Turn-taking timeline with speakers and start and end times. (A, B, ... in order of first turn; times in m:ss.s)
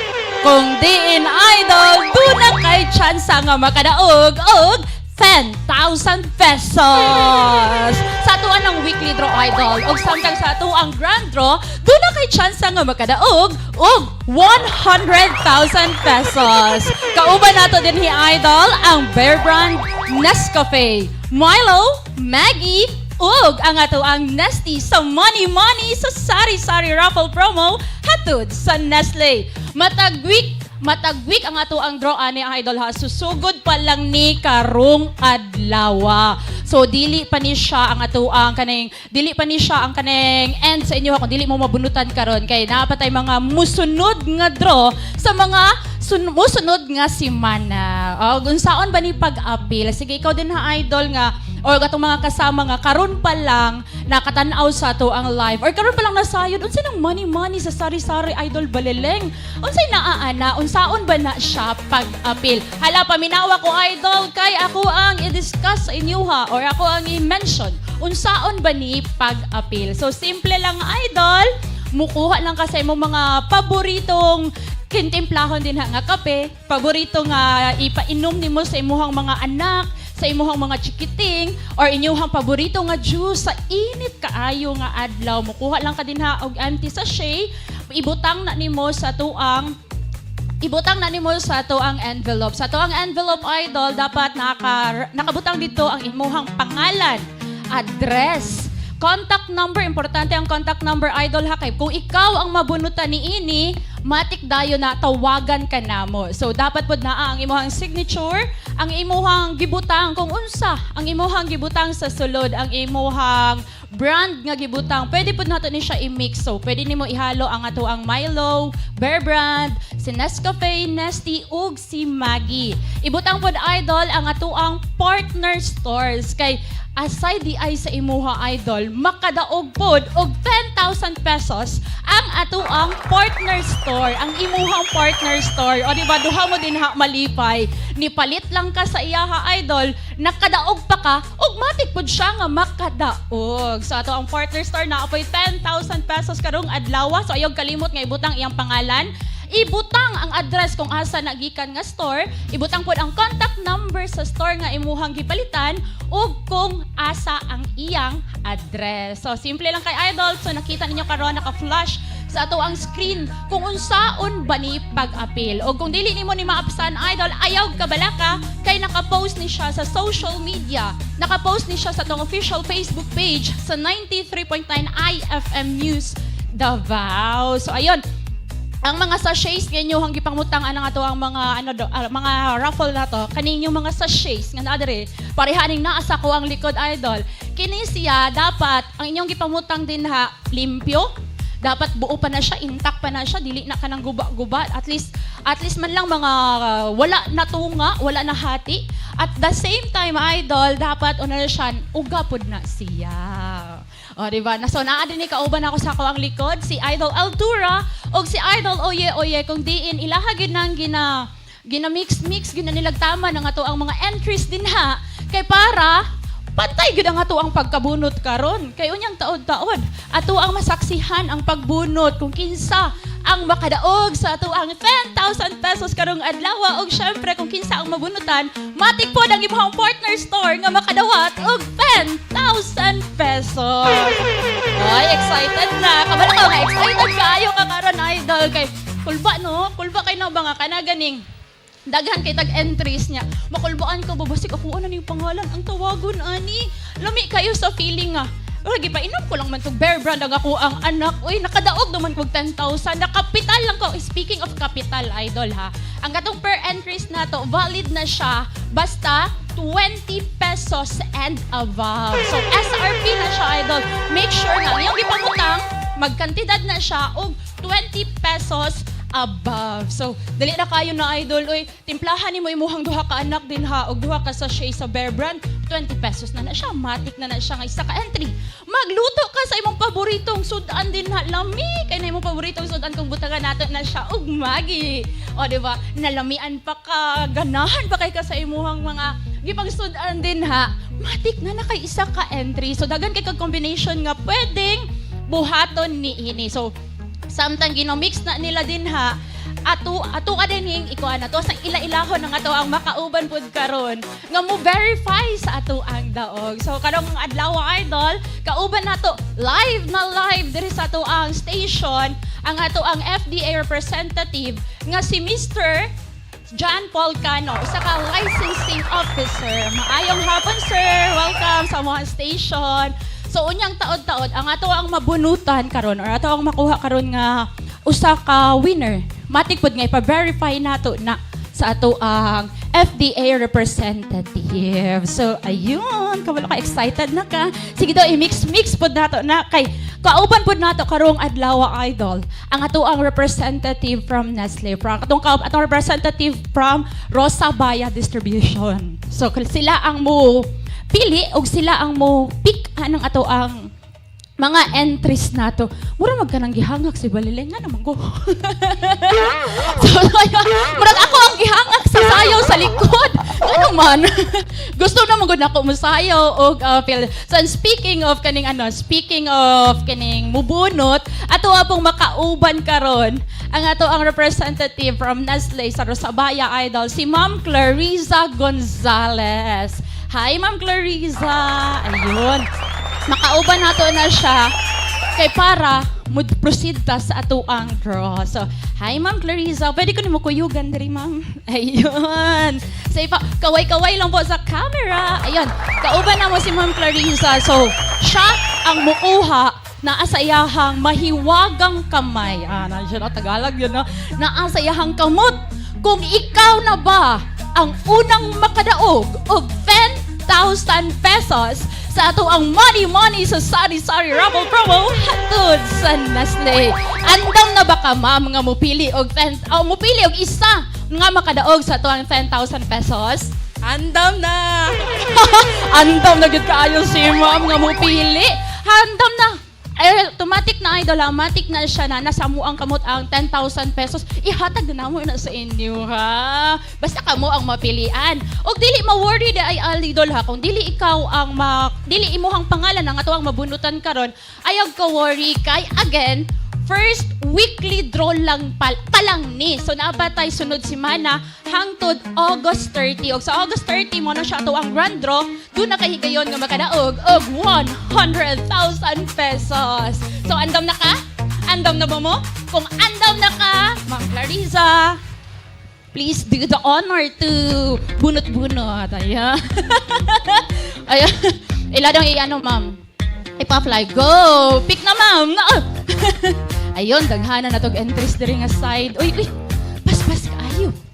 0:00.4-1:29.7 A
1:30.6-2:58.0 A
2:58.8-3:11.1 A
3:11.6-4:01.2 A
4:01.9-4:56.7 A
4:57.3-5:15.9 A
5:16.5-5:53.7 A
5:54.4-6:22.5 A
6:23.1-6:24.5 A
6:25.2-7:45.0 A
7:45.9-7:52.8 A
7:53.4-7:59.3 A
7:59.8-8:00.8 A